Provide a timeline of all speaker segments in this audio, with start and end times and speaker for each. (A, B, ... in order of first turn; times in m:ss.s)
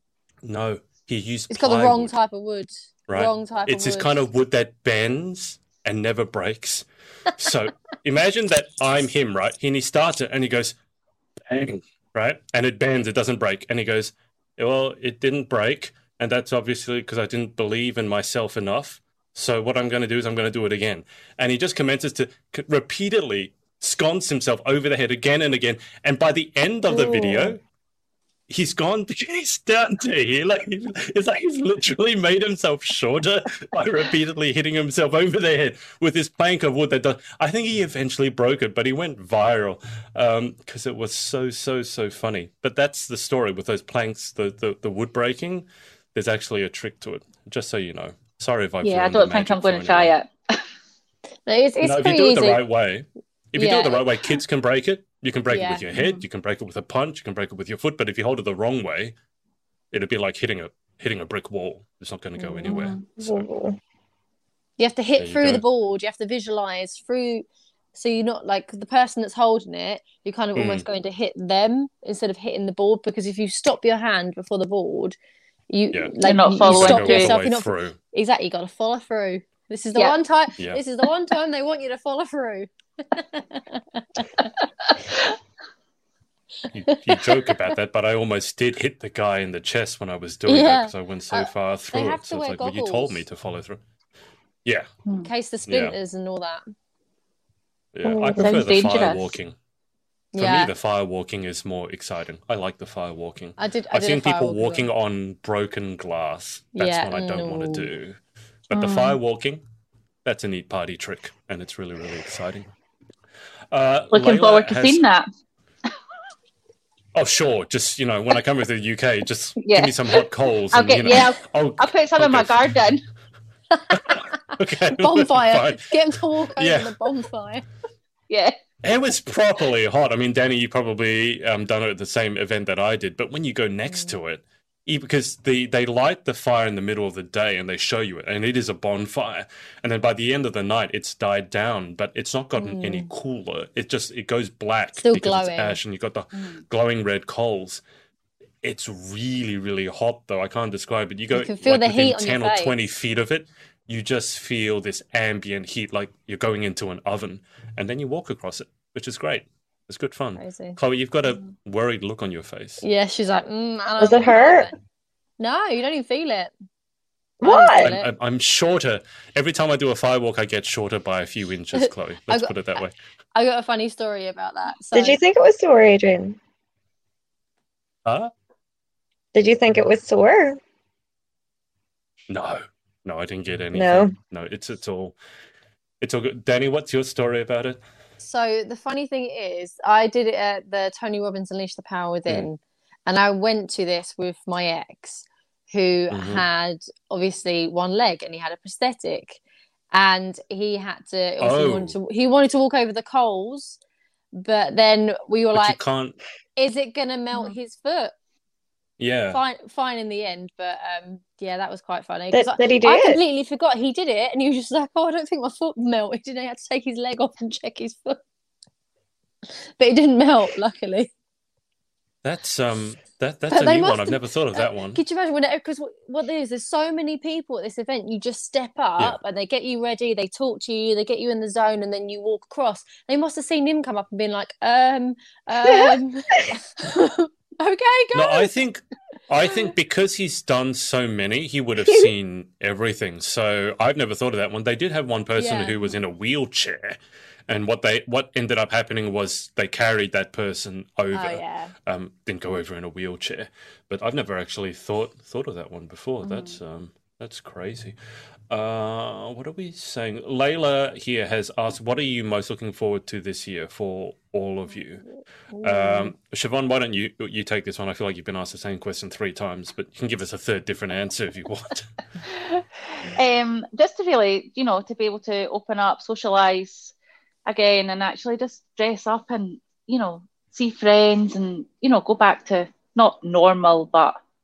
0:00.4-0:02.1 A
0:01.5-0:04.2 B
0:03.1-0:06.9 A
0:07.4-0:10.8 A
0:11.5-0:27.6 A
0:28.5-0:50.1 A
0:48.8-0:50.6 C
0:51.5-0:52.6 B
0:51.8-0:59.2 A
0:53.6-0:54.4 B
0:55.5-0:55.8 B
0:55.9-0:56.2 C
0:59.9-1:03.5 A
1:02.5-1:03.0 C
1:03.2-1:03.8 D
1:04.8-1:15.2 B
1:05.2-1:05.6 A
1:10.6-1:10.9 A
1:15.7-1:24.5 B
1:15.9-1:18.0 A
1:16.2-1:17.4 C
1:24.8-1:25.3 C
1:26.7-1:33.8 A
1:26.9-1:27.6 B
1:30.5-1:33.2 B
1:35.2-1:36.6 B
1:35.7-1:36.0 A
1:37.9-1:39.6 A
1:38.1-1:38.6 D
1:38.4-1:39.3 C
1:40.3-1:40.7 B
1:40.4-1:48.2 A
1:43.6-1:44.9 B
1:46.8-1:47.9 B
1:48.7-1:49.6 A
1:48.7-1:49.2 B
1:50.2-1:52.7 A
1:53.7-1:55.0 A
1:54.1-1:55.3 C
1:57.1-2:02.6 A
1:59.6-2:03.0 C
2:03.7-2:07.6 B
2:03.9-2:05.9 A
2:06.6-2:07.0 A
2:08.3-2:08.6 C
2:08.8-2:27.8 A
2:22.6-2:23.1 B
2:25.0-2:25.8 B
2:26.3-2:26.6 C
2:28.6-2:42.8 A
2:31.3-2:32.7 B
2:40.4-2:40.8 B
2:42.8-2:44.7 B
2:44.0-2:44.7 D
2:45.4-2:46.5 B
2:47.4-2:48.0 D
2:47.4-2:48.1 B
2:47.8-2:52.9 A
2:51.8-2:52.8 B
2:53.4-2:55.2 B
2:54.9-2:56.4 D
2:58.1-2:58.3 A
2:59.3-3:00.6 D
3:02.3-3:05.2 A
3:03.7-3:04.1 D
3:06.0-3:07.8 A
3:08.2-3:19.4 B
3:16.1-3:16.5 A
3:19.9-3:23.8 B
3:21.4-3:22.0 A
3:24.3-3:25.8 B
3:25.6-3:26.2 A
3:26.6-3:28.1 B
3:29.0-3:29.4 A
3:29.3-3:38.2 B
3:32.3-3:33.2 D
3:39.8-3:41.1 B
3:42.2-3:45.0 A
3:43.5-3:58.5 B
3:55.6-3:55.9 D
3:58.1-4:18.0 A
4:05.4-4:05.9 B
4:11.1-4:11.7 B
4:16.2-4:16.6 C
4:18.5-4:25.0 A
4:25.5-4:26.1 B
4:25.6-4:31.9 A
4:32.2-4:36.9 C
4:37.5-4:44.2 C